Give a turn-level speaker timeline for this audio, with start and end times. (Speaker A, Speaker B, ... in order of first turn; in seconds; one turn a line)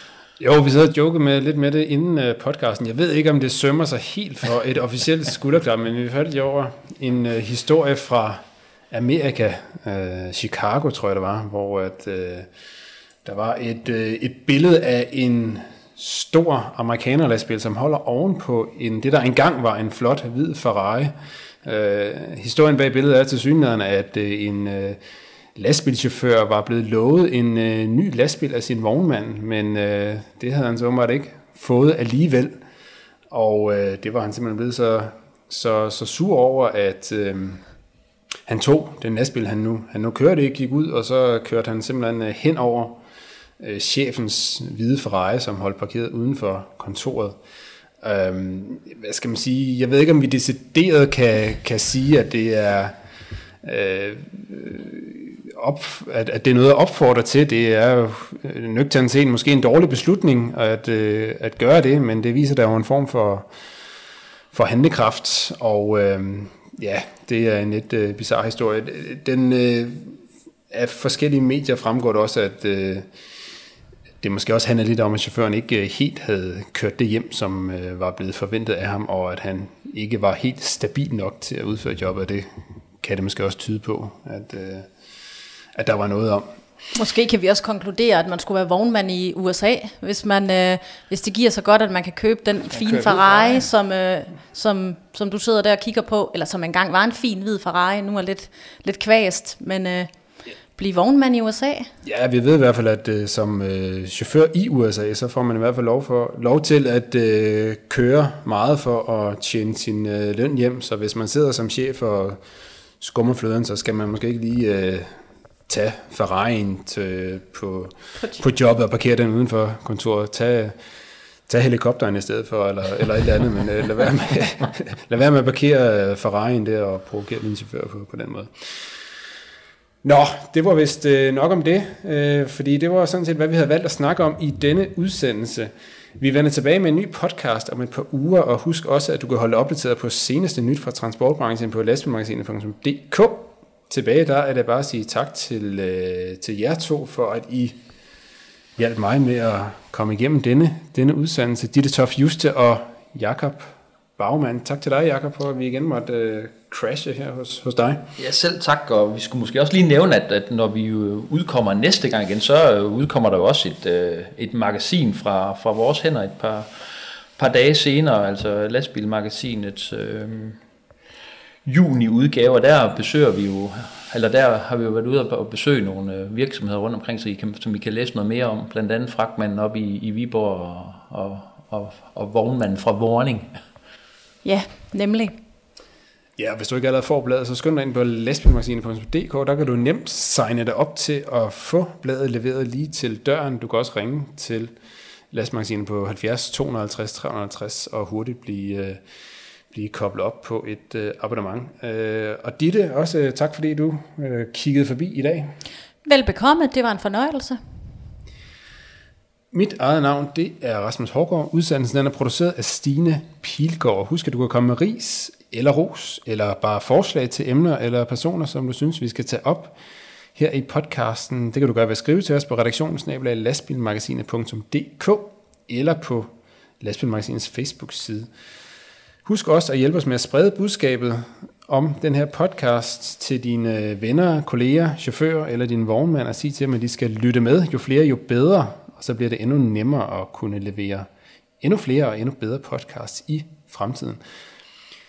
Speaker A: 0.4-12.5
Speaker A: 13.2-25.0
Speaker A: 25.6-32.5
Speaker A: 33.3-37.6
Speaker A: 38.5-43.0
Speaker A: 43.6-47.4
Speaker A: 48.0-53.0
Speaker A: 53.6-63.5
Speaker A: 64.5-73.1
Speaker A: 74.2-82.5
Speaker A: 83.0-84.9
Speaker A: 85.8-86.5
Speaker B: 87.0-100.1
Speaker A: 92.7-93.7
Speaker B: 100.8-101.9
Speaker A: 102.0-112.4
Speaker A: 113.0-115.1
Speaker A: 115.7-120.8
Speaker A: 121.5-128.8
Speaker A: 130.0-147.8
Speaker A: 148.8-158.1
Speaker C: 158.2-166.7
Speaker C: 167.4-170.6
Speaker C: 171.7-183.5
Speaker B: 184.4-185.3
Speaker A: 186.4-194.7
Speaker A: 195.3-199.0
Speaker A: 199.7-205.5
Speaker B: 206.1-207.6
Speaker A: 209.5-219.8
Speaker A: 220.3-228.3
Speaker A: 229.2-241.1
Speaker A: 241.6-244.2